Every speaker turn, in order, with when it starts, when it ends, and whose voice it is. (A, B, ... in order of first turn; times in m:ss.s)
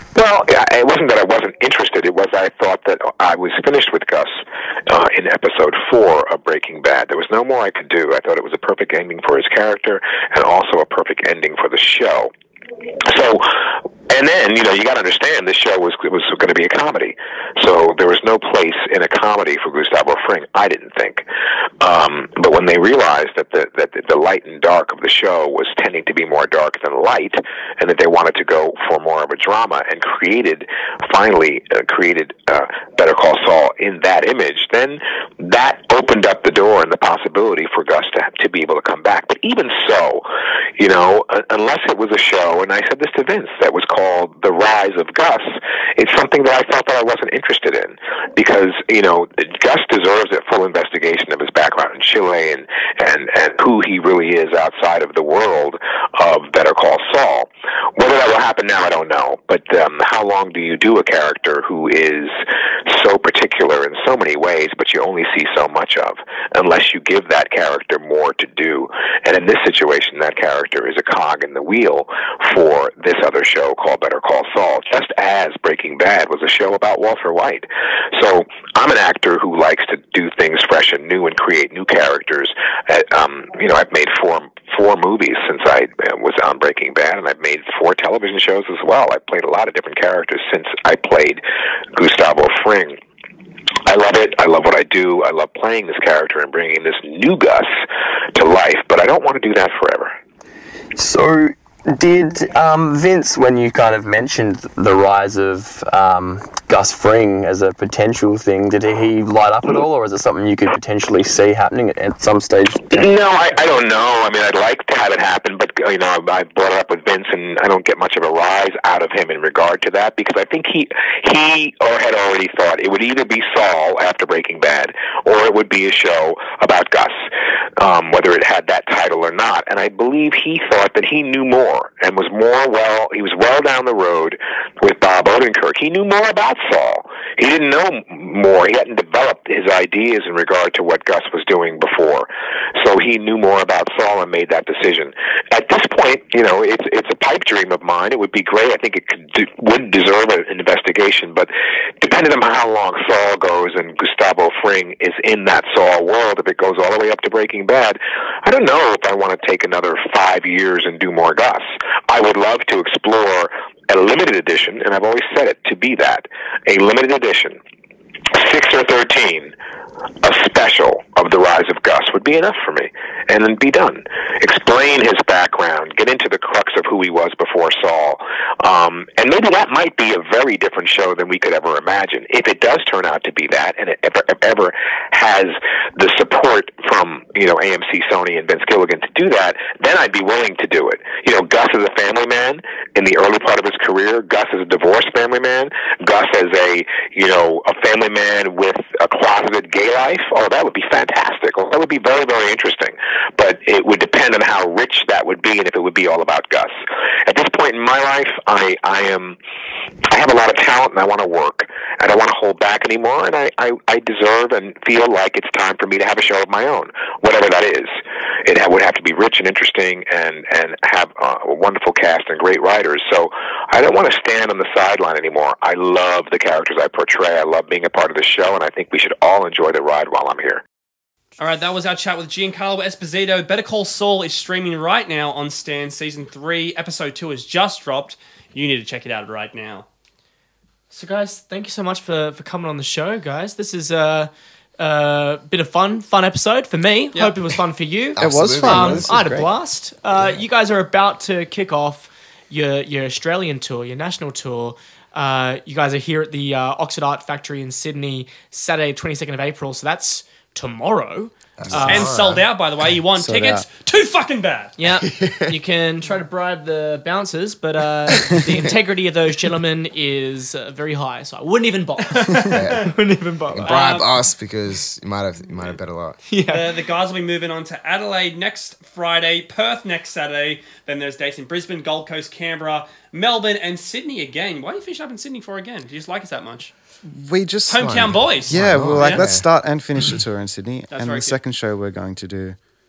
0:00.1-0:12.3 A
0:13.0-0:13.6 A
0:14.1-0:21.2 A
0:21.8-0:40.2 A
0:40.8-1:31.4 A
1:31.9-1:33.0 A
1:33.8-1:37.7 A
1:38.3-1:40.1 A
1:40.9-1:52.9 B
1:52.9-2:07.2 A
2:07.8-2:47.6 A
2:48.3-2:49.5 A
2:50.2-3:29.4 A
3:30.1-3:50.6 A
3:51.4-3:59.9 C
4:00.9-4:22.1 D
4:08.2-4:09.2 E
4:08.2-4:09.5 F
4:21.6-4:22.4 E
4:21.7-4:22.1 F
4:21.7-4:24.8 C
4:23.1-4:23.6 F
4:24.8-4:33.9 D
4:25.0-4:25.6 E
4:32.1-4:32.8 C
4:32.5-4:32.9 E
4:33.5-4:36.2 E
4:33.6-4:34.1 C
4:36.3-4:36.9 D
4:36.5-4:46.7 C
4:47.0-4:52.6 F
4:47.7-4:49.2 C
4:47.8-4:49.5 E
4:50.9-4:51.4 C